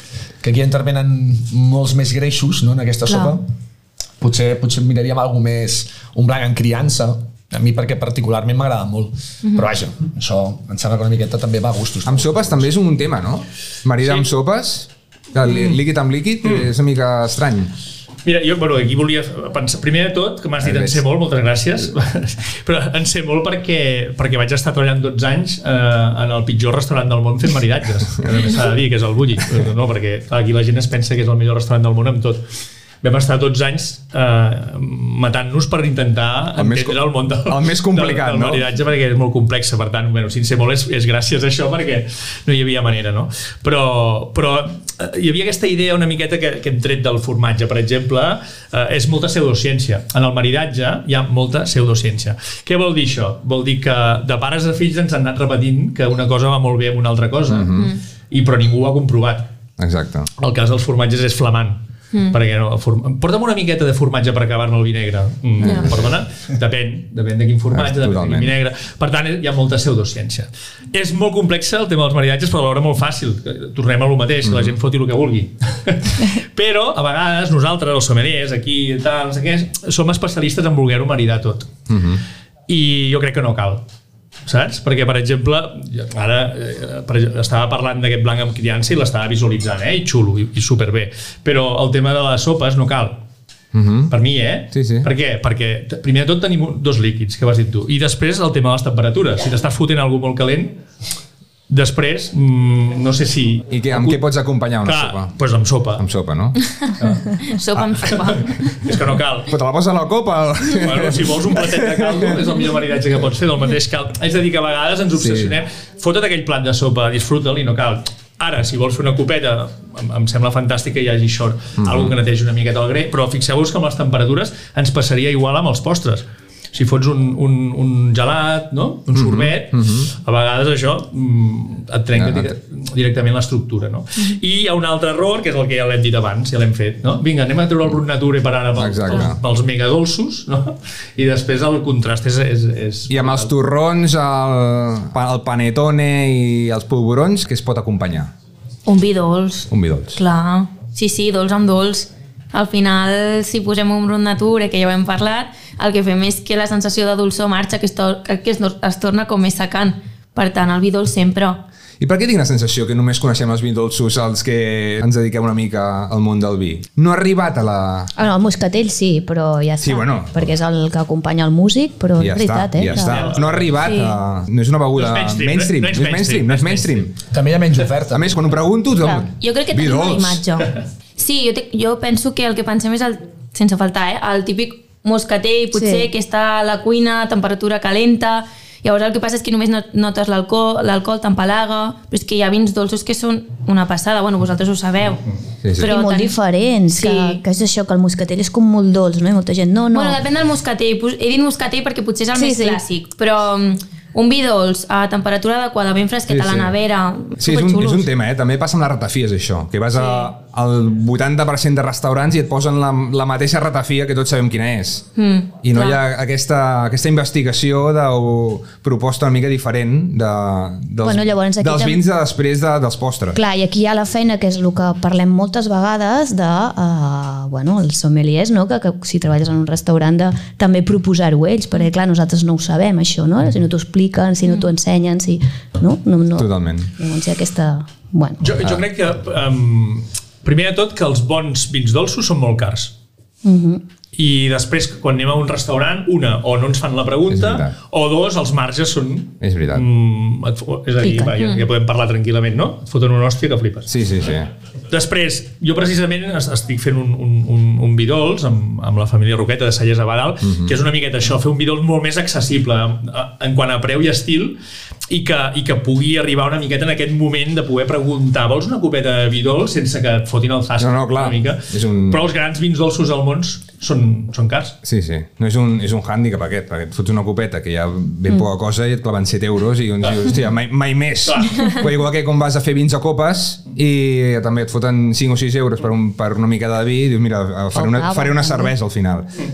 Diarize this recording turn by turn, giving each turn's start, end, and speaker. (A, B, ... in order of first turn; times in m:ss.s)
0:00.4-0:03.4 A
0:03.1-0:03.4 B
0:04.2-0:12.7 A
0:09.4-0:09.7 B
0:12.1-0:17.7 C
0:15.4-0:15.8 D
0:18.2-0:32.4 D
0:20.6-0:21.0 C
0:33.0-0:59.5 D
0:36.6-0:38.6 C
0:57.5-0:57.9 C
0:59.8-1:00.3 C
1:00.4-1:01.8 D
1:02.3-1:21.7 D
1:05.6-1:06.1 C
1:07.7-1:08.6 C
1:14.4-1:14.8 C
1:21.9-1:22.2 C
1:22.7-1:23.8 D
1:24.4-1:33.2 D
1:33.7-1:34.1 C
1:34.1-1:40.8 D
1:34.7-1:35.1 C
1:41.7-1:44.2 D
1:43.7-1:45.3 C
1:44.8-1:46.0 D
1:46.0-1:46.6 C
1:47.4-1:48.6 B
1:47.8-1:48.9 C
1:48.8-1:49.6 D
1:49.5-1:52.4 C
1:50.8-2:23.5 D
1:55.2-1:55.5 C
2:01.8-2:02.1 C
2:09.1-2:10.1 C
2:12.1-2:12.5 C
2:18.8-2:19.4 C
2:23.1-2:28.3 C
2:28.9-2:41.6 B
2:29.7-2:30.2 C
2:42.0-2:48.1 C
2:48.2-2:53.3 E
2:49.8-2:50.5 C
2:52.2-2:57.1 C
2:52.9-2:53.8 D
2:53.8-2:54.2 B
2:54.9-2:57.1 D
2:57.3-2:58.4 A
2:58.1-3:00.4 C
2:59.1-3:15.2 B
3:05.7-3:06.1 E
3:15.6-3:15.9 C
3:15.8-3:16.4 B
3:15.8-3:20.2 E
3:16.9-3:17.4 B
3:19.9-3:28.1 B
3:22.3-3:22.8 E
3:26.3-3:26.8 C
3:27.4-3:35.1 C
3:30.0-3:30.3 B
3:35.2-3:36.0 B
3:35.6-3:43.4 C
3:41.0-3:42.0 E
3:43.4-3:58.4 E
3:56.4-3:56.9 C
3:58.4-4:02.9 D
4:03.4-4:03.8 E
4:04.2-4:13.9 D
4:07.3-4:07.7 C
4:09.4-4:09.8 C
4:11.0-4:11.3 E
4:11.4-4:11.6 B
4:13.9-4:14.5 C
4:14.9-4:24.6 D
4:20.4-4:20.8 C
4:25.1-4:34.8 D
4:30.8-4:32.2 C
4:34.8-4:49.3 C
4:41.3-4:41.7 D
4:47.8-4:48.7 E